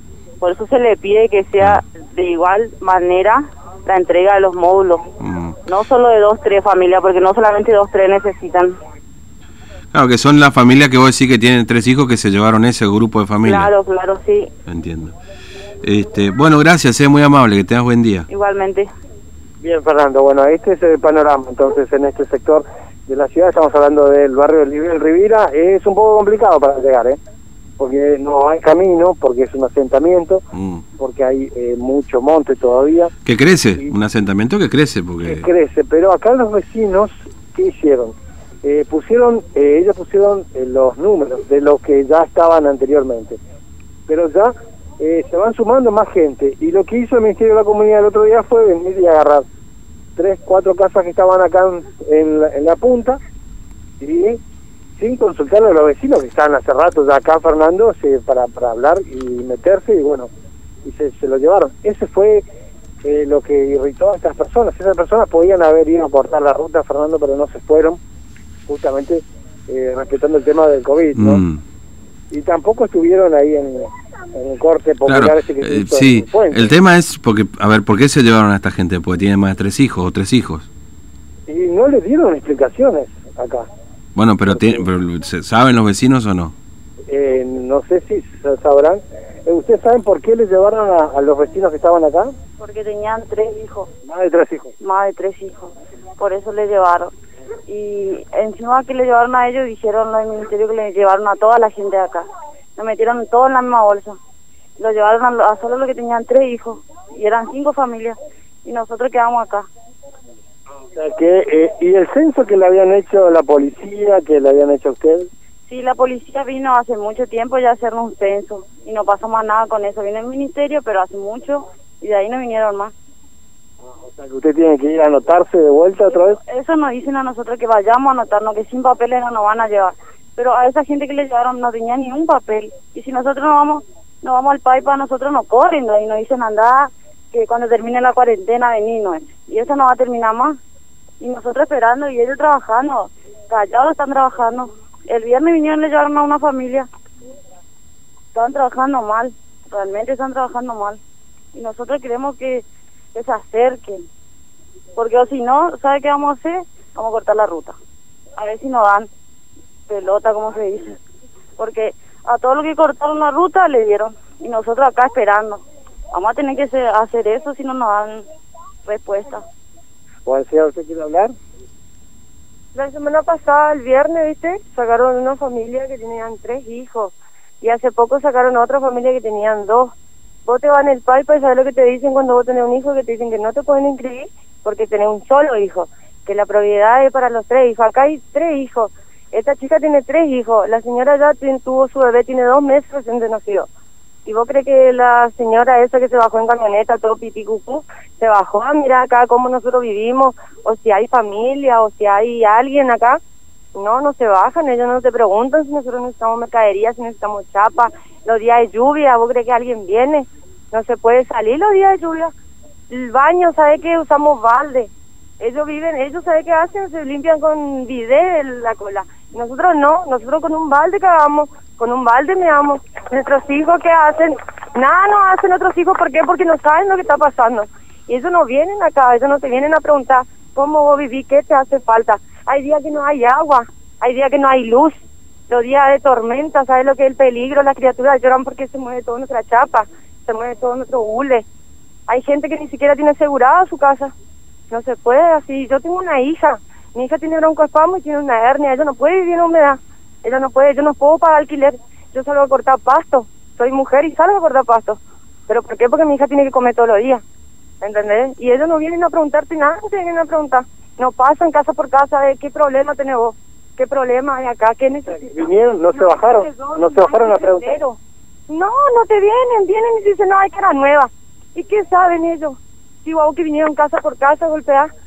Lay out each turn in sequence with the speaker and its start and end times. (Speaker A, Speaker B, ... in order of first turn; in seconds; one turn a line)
Speaker A: 0.4-5.0
Speaker B: 5.2-5.5
Speaker A: 5.7-8.8
Speaker B: 9.9-13.7
Speaker A: 13.4-14.5
Speaker B: 14.7-15.2
Speaker B: 15.8-18.3
Speaker A: 18.3-18.9
Speaker C: 19.6-27.2
Speaker C: 27.8-30.4
Speaker B: 30.5-30.8
Speaker C: 31.0-33.1
Speaker B: 33.2-35.5
Speaker C: 35.2-43.4
Speaker C: 44.1-49.4
Speaker C: 50.2-53.2
Speaker C: 54.0-54.4
Speaker C: 55.0-60.3
Speaker C: 60.8-62.4
Speaker C: 63.0-68.0
Speaker C: 68.7-71.4
Speaker B: 71.2-71.6
Speaker C: 72.3-76.7
Speaker B: 75.0-80.7
Speaker C: 81.5-83.7
Speaker B: 84.1-86.5
Speaker C: 84.5-84.8
Speaker C: 87.1-92.3
Speaker D: 92.6-93.9
Speaker C: 94.0-94.7
Speaker D: 94.8-97.1
Speaker D: 97.7-104.2
Speaker D: 104.8-109.7
Speaker C: 110.9-115.3
Speaker D: 115.7-122.9
Speaker C: 124.0-126.4
Speaker D: 126.1-140.6
Speaker D: 141.2-146.9
Speaker D: 148.3-151.0
Speaker D: 151.5-154.1
Speaker D: 154.9-157.8
Speaker D: 158.3-159.1
Speaker D: 159.9-161.0
Speaker D: 161.6-168.3
Speaker D: 168.8-169.4
Speaker C: 170.2-171.3
Speaker E: 172.7-179.9
Speaker E: 180.4-193.7
Speaker E: 194.2-203.2
Speaker E: 203.7-212.3
Speaker E: 212.9-234.9
Speaker E: 235.5-241.4
Speaker E: 242.1-244.1
Speaker E: 244.7-257.2
Speaker E: 257.8-265.4
Speaker C: 265.1-267.8
Speaker E: 265.9-274.9